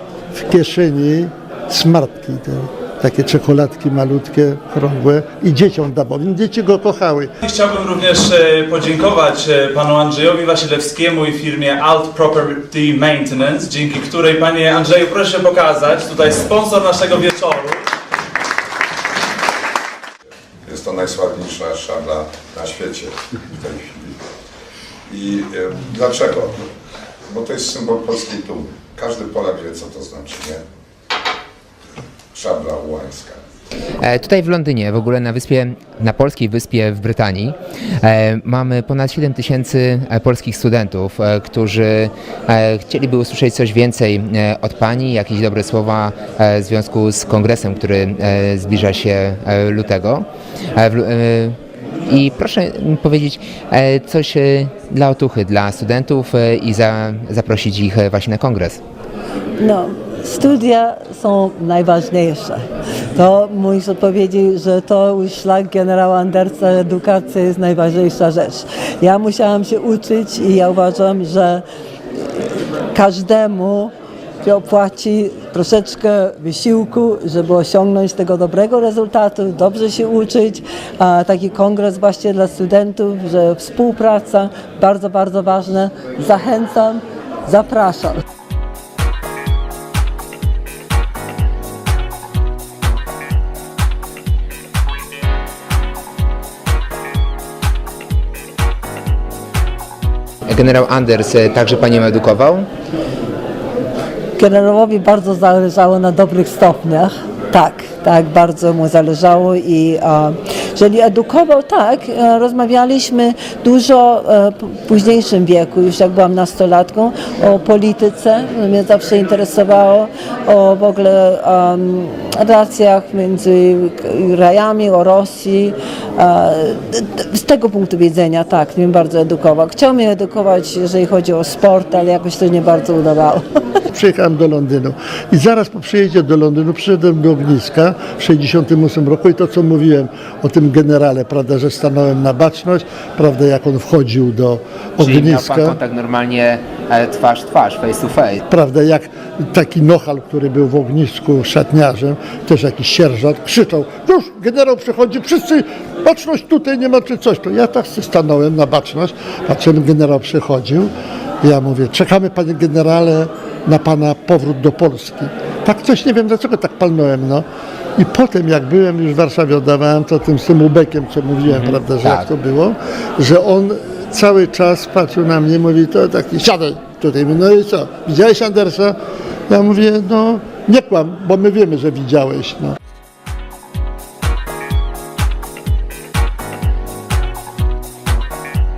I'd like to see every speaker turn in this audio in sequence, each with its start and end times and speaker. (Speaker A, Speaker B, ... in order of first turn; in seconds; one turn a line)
Speaker A: 0.3-7.3
Speaker B: 7.4-17.9
Speaker C: 20.7-24.2
Speaker C: 25.1-26.7
Speaker C: 27.3-30.6
Speaker C: 32.3-33.4
Speaker D: 34.0-51.5
Speaker D: 52.1-58.8
Speaker E: 59.6-71.6
Speaker E: 72.9-88.2
Speaker D: 100.5-102.7
Speaker E: 104.4-133.5
Speaker A: 133.9-145.8
Speaker D: 145.0-148.4
Speaker A: 148.5-167.4
Speaker A: 168.0-179.0
Speaker D: 171.5-172.3
Speaker A: 179.5-182.8